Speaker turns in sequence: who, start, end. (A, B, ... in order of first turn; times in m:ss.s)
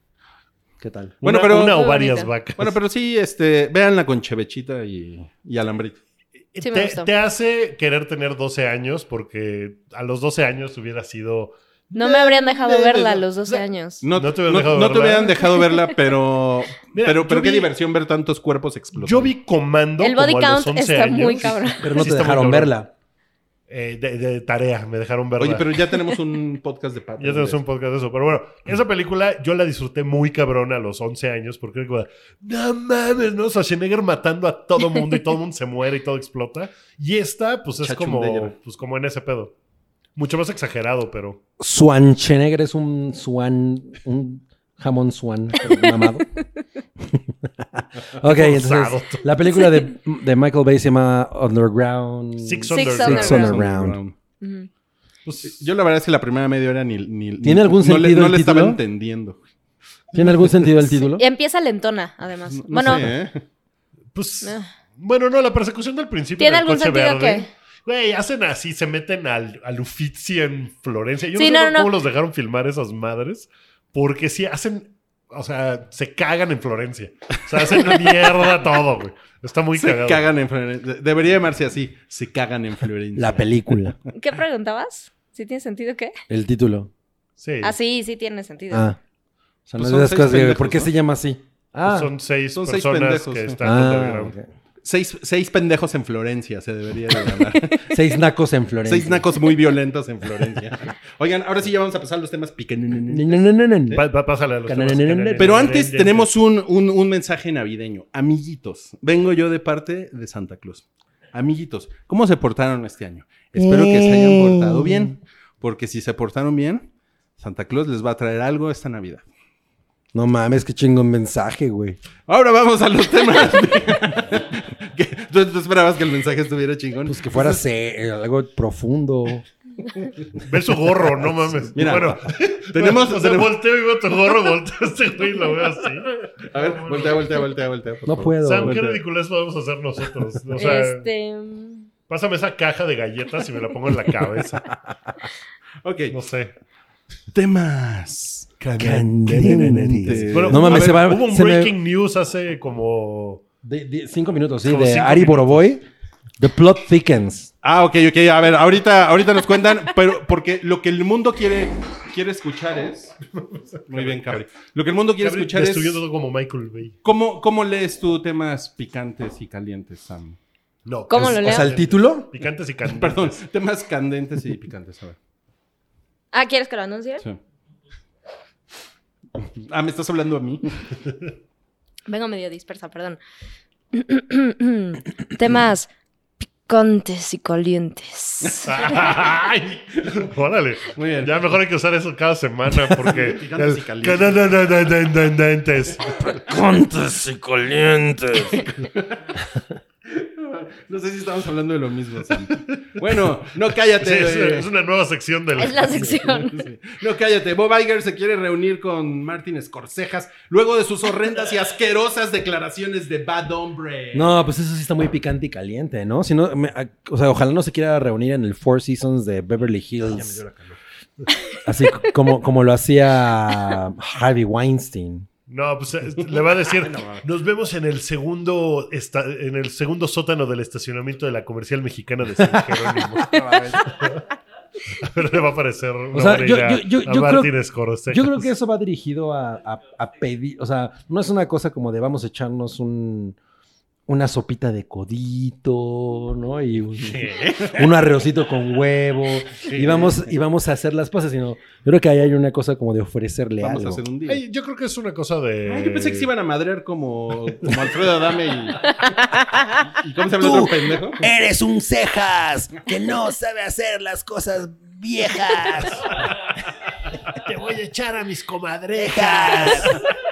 0:00.8-0:01.2 A
0:01.2-0:02.8 B
0:01.2-0:02.0 C
0:01.7-0:02.3 D
0:02.6-0:06.0 C
0:06.5-0:12.8 B
0:06.6-0:07.1 D
0:11.9-0:14.0 D
0:12.8-0:13.2 C
0:13.4-0:15.4 B
0:14.0-0:19.3 C
0:16.9-0:17.7 B
0:18.9-0:22.7 B
0:20.0-0:22.0 D
0:21.8-0:22.9 A
0:23.7-0:25.8 B
0:25.4-0:27.6 C
0:27.2-0:39.5 B
0:37.8-0:38.5 C
0:40.2-0:41.4 B
0:41.6-0:46.3 A
0:47.0-0:54.0 A
0:48.2-0:49.3 B
0:52.4-0:53.6 B
0:52.7-0:53.6 D
0:53.2-0:54.1 C
0:54.4-0:54.7 D
0:55.2-0:55.6 B
0:55.4-0:59.4 C
0:57.4-0:58.8 A
1:00.1-1:01.2 A
1:00.9-1:03.1 D
1:02.5-1:03.4 C
1:04.1-1:20.3 B
1:04.4-1:04.7 D
1:06.4-1:07.5 D
1:11.4-1:11.9 D
1:17.7-1:18.0 C
1:19.7-1:23.8 C
1:23.2-1:24.0 A
1:24.1-1:26.1 D
1:26.3-1:26.9 A
1:27.4-1:27.7 B
1:27.6-1:28.9 D
1:28.7-1:29.0 A
1:29.7-1:32.1 A
1:29.8-1:30.9 C
1:31.8-1:34.3 B
1:32.5-1:33.6 C
1:33.6-1:34.5 A
1:34.8-1:38.0 C
1:37.8-1:39.3 A
1:38.8-1:44.0 C
1:43.1-1:44.1 A
1:43.9-1:46.3 B
1:44.6-1:45.8 A
1:45.4-1:59.2 C
1:53.5-1:55.1 A
2:00.1-2:02.0 A
2:02.3-2:07.6 C
2:07.0-2:09.4 A
2:10.4-2:17.3 B
2:11.4-2:12.0 A
2:11.7-2:12.2 C
2:12.7-2:13.6 C
2:16.5-2:19.0 C
2:18.0-2:18.8 A
2:18.4-2:21.0 B
2:20.5-2:21.9 D
2:22.1-2:24.7 B
2:25.8-2:26.2 C
2:26.1-2:26.5 B
2:27.3-2:28.6 C
2:28.6-2:33.4 B
2:28.8-2:31.8 A
2:29.3-2:31.1 C
2:33.6-2:35.8 A
2:34.6-2:35.6 B
2:36.4-2:37.5 A
2:37.6-2:43.1 C
2:43.4-2:44.4 B
2:43.9-2:46.0 C
2:45.2-2:47.0 B
2:47.0-2:50.4 C
2:50.8-2:53.4 B
2:51.1-2:51.7 D
2:51.1-2:52.3 A
2:52.8-2:55.2 C
2:56.3-2:57.2 D
2:59.4-3:00.8 C
3:02.1-3:03.2 D
3:03.9-3:05.9 D
3:06.6-3:08.7 D
3:08.5-3:09.1 C
3:08.6-3:16.3 B
3:10.9-3:11.6 C
3:13.0-3:14.8 C
3:16.1-3:18.6 A
3:18.8-3:19.3 C
3:20.1-3:24.7 C
3:24.0-3:26.2 B
3:25.6-3:26.6 D
3:26.2-3:34.4 C
3:34.1-3:40.4 A
3:40.0-3:40.8 C
3:41.6-3:45.3 A
3:45.5-3:54.2 B
3:46.6-3:47.2 C
3:52.4-3:53.0 A
3:53.2-3:54.0 C
3:54.9-3:58.5 B
3:56.1-3:57.5 A
3:58.1-4:03.4 A
4:04.1-4:14.0 A
4:07.1-4:07.9 B
4:09.6-4:10.1 B
4:13.6-4:14.4 C
4:14.3-4:16.3 B
4:15.6-4:19.2 C
4:19.0-4:19.8 D
4:19.8-4:21.2 C
4:20.4-4:26.1 A
4:27.3-4:30.1 B
4:28.9-4:30.0 A